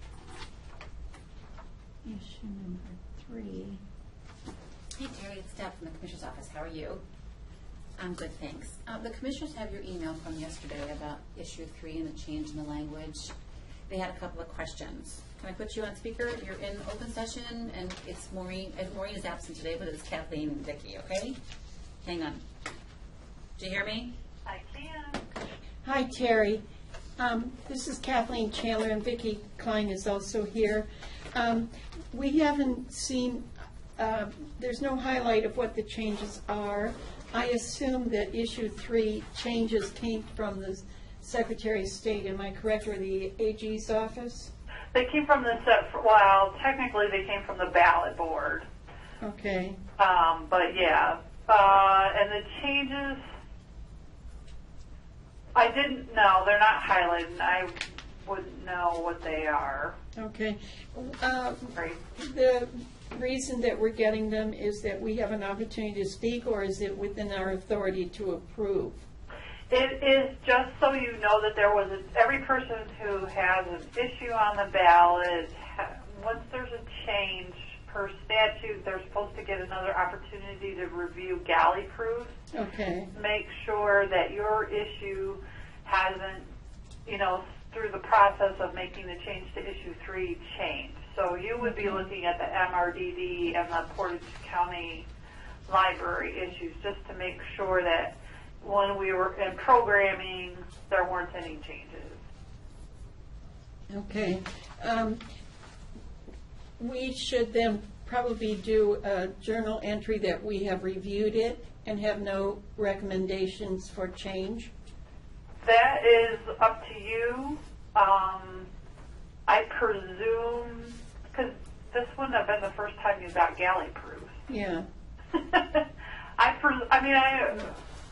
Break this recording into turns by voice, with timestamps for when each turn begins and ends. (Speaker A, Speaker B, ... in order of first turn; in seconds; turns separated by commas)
Speaker A: 2.0-3.8, Speaker B: 4.9-7.0, Speaker B: 8.0-13.3, Speaker B: 13.9-21.4, Speaker B: 22.0-22.4, Speaker B: 23.6-24.1, Speaker C: 24.4-25.2, Speaker A: 25.8-26.6, Speaker A: 27.2-44.5, Speaker C: 44.9-48.6, Speaker A: 49.2-49.8, Speaker C: 50.0-53.2, Speaker C: 55.5-59.9, Speaker A: 60.1-69.0, Speaker C: 69.7-82.3, Speaker A: 82.5-83.1, Speaker C: 83.1-86.5, Speaker C: 87.0-95.1, Speaker A: 91.6-92.0, Speaker C: 95.7-102.2, Speaker A: 103.9-105.2, Speaker A: 106.8-114.7, Speaker C: 115.6-118.7, Speaker C: 119.5-124.3, Speaker A: 124.5-124.9, Speaker C: 125.3-125.9, Speaker C: 126.4-127.8